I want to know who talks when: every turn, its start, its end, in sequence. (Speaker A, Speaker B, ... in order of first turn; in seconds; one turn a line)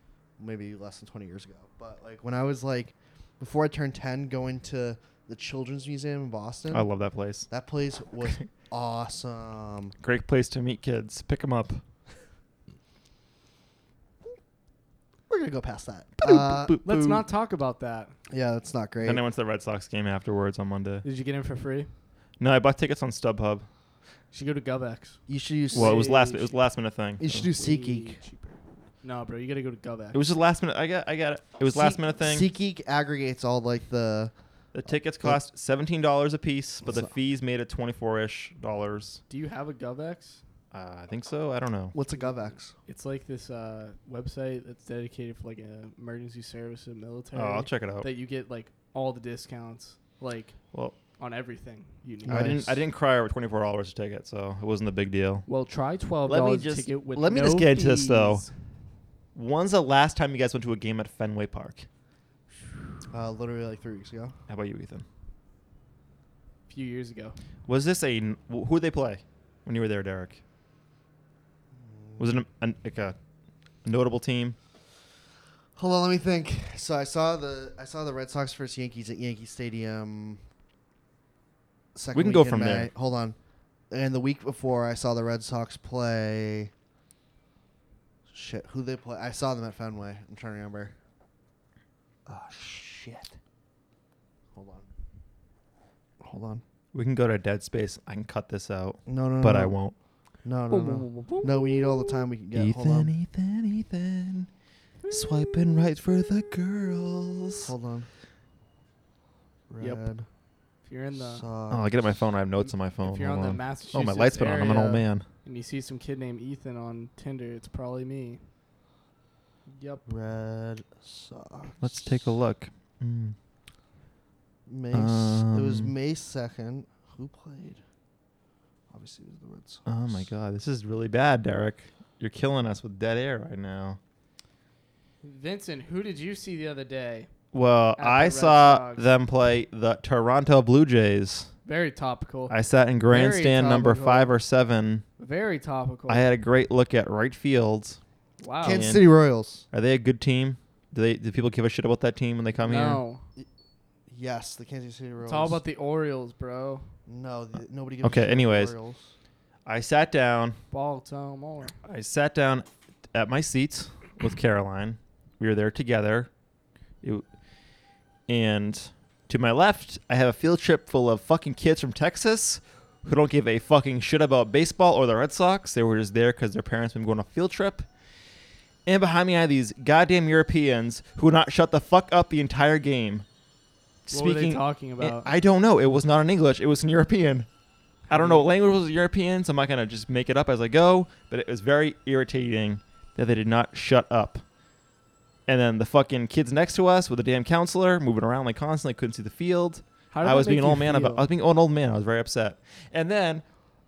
Speaker A: 0.4-6.9
Speaker B: 6.7-7.5
Speaker A: 7.5-9.9
Speaker B: 10.0-11.8
Speaker A: 15.3-17.2
Speaker B: 16.2-16.9
Speaker C: 16.8-18.1
Speaker A: 18.3-19.2
Speaker B: 19.0-21.1
Speaker C: 21.0-21.9
Speaker B: 22.4-23.7
Speaker C: 24.3-26.5
Speaker A: 25.3-26.0
Speaker B: 25.7-27.5
Speaker A: 27.2-28.2
Speaker C: 27.4-30.2
Speaker B: 30.1-32.5
Speaker A: 31.7-34.3
Speaker B: 34.7-39.2
Speaker A: 34.9-35.4
Speaker A: 36.8-37.1
Speaker C: 39.3-40.4
Speaker B: 40.7-42.0
Speaker A: 41.9-42.8
Speaker C: 42.1-52.8
Speaker B: 47.3-48.1
Speaker A: 52.3-52.8
Speaker B: 52.3-55.5
Speaker C: 55.5-58.5
Speaker B: 56.3-58.5
Speaker B: 59.4-61.9
Speaker A: 63.1-64.3
Speaker B: 64.5-65.0
Speaker C: 66.7-67.4
Speaker B: 67.7-70.4
Speaker A: 71.7-72.3
Speaker B: 72.2-73.2
Speaker B: 73.8-74.6
Speaker A: 75.8-80.4
Speaker A: 82.0-83.4
Speaker B: 82.1-82.9
Speaker A: 83.9-86.7
Speaker A: 88.3-90.9
Speaker A: 92.3-93.3
Speaker A: 94.5-94.9
Speaker A: 96.2-96.6
Speaker B: 96.9-100.0
Speaker A: 99.1-99.8
Speaker A: 100.4-103.1
Speaker C: 100.7-102.2
Speaker B: 102.5-104.5
Speaker C: 105.0-105.5
Speaker B: 105.1-107.7
Speaker A: 107.6-108.1
Speaker A: 109.7-110.3
Speaker C: 109.8-110.1
Speaker C: 110.8-111.5
Speaker A: 111.2-112.0
Speaker B: 111.7-115.3
Speaker C: 113.0-118.4
Speaker C: 119.7-120.1
Speaker A: 120.1-122.3
Speaker B: 121.8-123.4
Speaker A: 124.7-127.8
Speaker B: 124.9-125.9
Speaker A: 128.9-130.3
Speaker B: 129.9-134.0
Speaker C: 135.2-137.3
Speaker B: 137.5-141.5
Speaker C: 138.0-139.1
Speaker C: 141.7-142.6
Speaker B: 142.5-145.1
Speaker C: 143.1-144.3
Speaker C: 145.2-146.3
Speaker B: 146.1-148.0
Speaker C: 148.4-148.9
Speaker A: 148.6-149.6
Speaker B: 148.7-149.1
Speaker B: 149.7-153.0
Speaker C: 152.6-153.3
Speaker A: 154.1-155.6
Speaker C: 155.2-156.9
Speaker A: 157.1-159.1
Speaker B: 158.0-158.7
Speaker B: 159.7-160.6
Speaker C: 160.7-161.8
Speaker B: 161.8-166.3
Speaker B: 168.3-177.9
Speaker B: 178.9-183.3
Speaker B: 184.1-187.5
Speaker C: 184.1-185.3
Speaker B: 188.1-194.4
Speaker C: 188.1-188.4
Speaker B: 195.5-203.4
Speaker C: 200.1-201.2